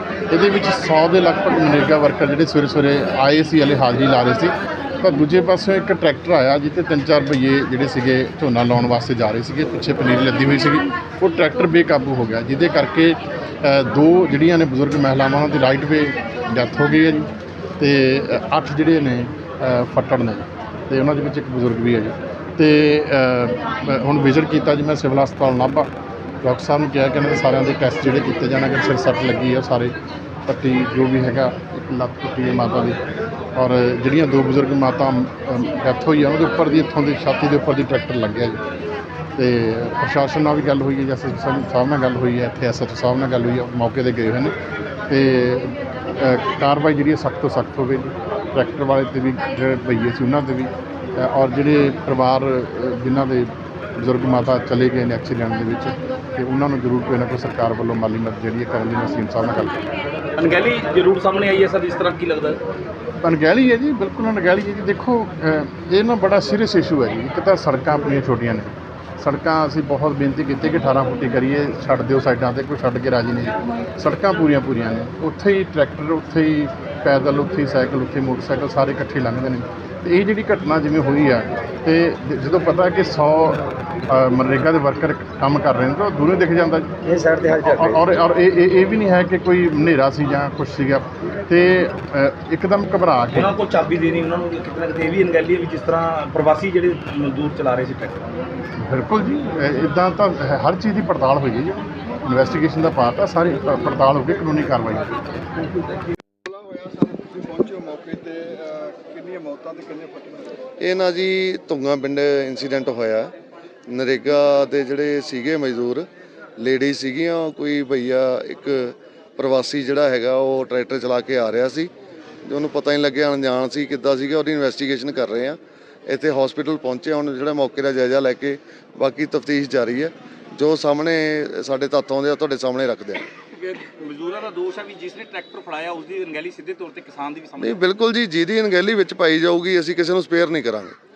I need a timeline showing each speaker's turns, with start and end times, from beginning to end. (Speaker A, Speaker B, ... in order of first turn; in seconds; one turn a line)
Speaker A: 0.3-25.9
Speaker A: 26.4-29.9
Speaker A: 30.5-33.0
Speaker A: 33.5-38.6
Speaker A: 39.4-44.5
Speaker A: 45.1-59.8
Speaker B: 60.4-62.6
Speaker A: 63.2-86.9
Speaker B: 87.0-88.0
Speaker A: 87.6-93.5
Speaker B: 93.3-98.2
Speaker A: 98.8-105.1
Speaker C: 106.7-110.4
Speaker D: 110.8-113.3
Speaker D: 113.9-116.0
Speaker D: 116.7-118.8
Speaker D: 119.4-121.9
Speaker D: 122.5-125.6
Speaker D: 126.1-128.5
Speaker D: 129.1-130.1
Speaker D: 130.6-133.2
Speaker D: 137.7-140.9